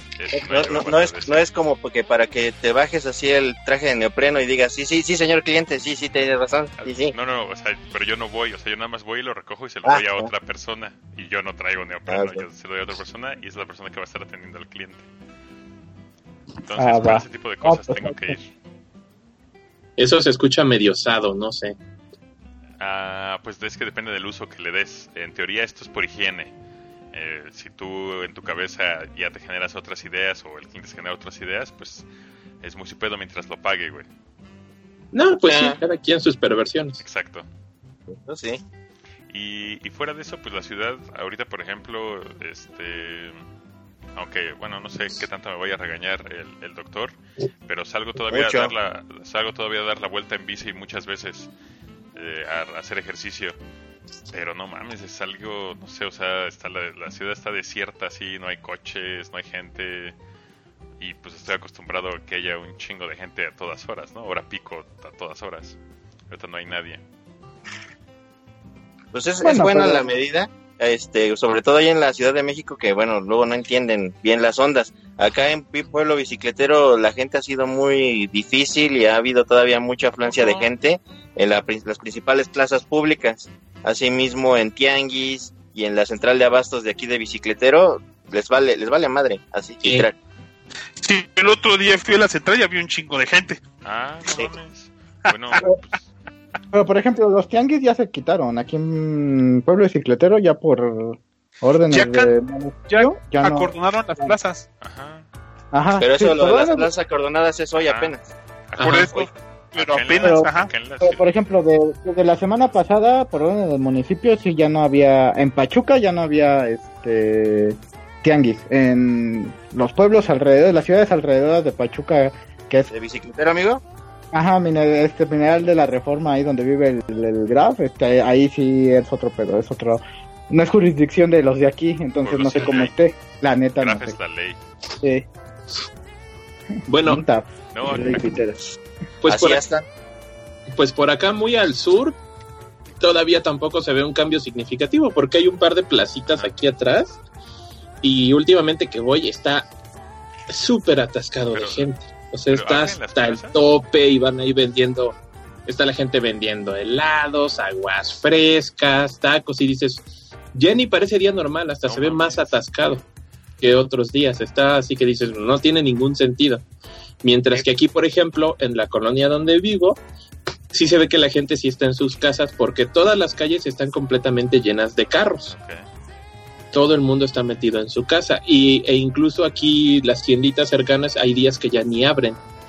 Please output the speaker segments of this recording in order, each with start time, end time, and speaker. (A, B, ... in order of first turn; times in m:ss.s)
0:00.2-0:01.4 A
0:00.3-0:07.1 B
0:06.8-0:15.1 A
0:09.8-0:10.3 B
0:12.1-0:12.4 B
0:16.6-0:18.5 A
0:16.8-0:18.4 C
0:20.0-0:21.8 D
0:22.8-0:26.5 A
0:27.1-0:32.1 A
0:32.6-0:34.1 A
0:35.1-0:37.0 D
0:35.5-0:35.8 B
0:37.0-0:37.5 A
0:38.1-0:38.6 B
0:39.3-0:43.4 A
0:44.2-0:47.2 A
0:47.7-0:51.5 A
0:48.2-0:48.7 B
0:52.2-0:53.6 A
0:54.3-1:00.2 A
1:01.0-1:05.8 A
1:06.3-1:07.0 A
1:09.1-1:30.2 B
1:09.4-1:10.1 C
1:20.2-1:20.7 A
1:31.0-1:33.6 E
1:33.8-1:36.1 A
1:35.2-1:35.6 E
1:36.7-1:44.4 C
1:41.9-1:42.3 E
1:42.9-1:44.6 E
1:44.8-1:45.2 A
1:45.7-1:46.9 C
1:46.0-1:48.3 B
1:47.7-1:48.1 A
1:48.7-1:51.4 A
1:48.8-1:50.7 E
1:50.2-1:50.5 C
1:51.0-2:02.9 C
2:02.9-2:03.8 B
2:04.3-2:14.2 C
2:12.2-2:12.9 A
2:13.8-2:14.6 A
2:15.0-2:15.2 C
2:16.9-2:17.2 D
2:17.0-2:18.7 C
2:17.7-2:18.4 A
2:19.2-2:19.6 D
2:19.3-2:19.9 B
2:20.7-2:22.2 D
2:23.0-2:27.2 D
2:28.0-2:29.7 D
2:30.5-2:43.0 D
2:31.5-2:31.9 A
2:32.5-2:33.6 A
2:41.9-2:42.6 A
2:43.6-2:46.6 D
2:47.2-2:50.0 D
2:50.7-2:55.5 D
2:55.5-2:55.9 A
2:56.7-3:02.4 D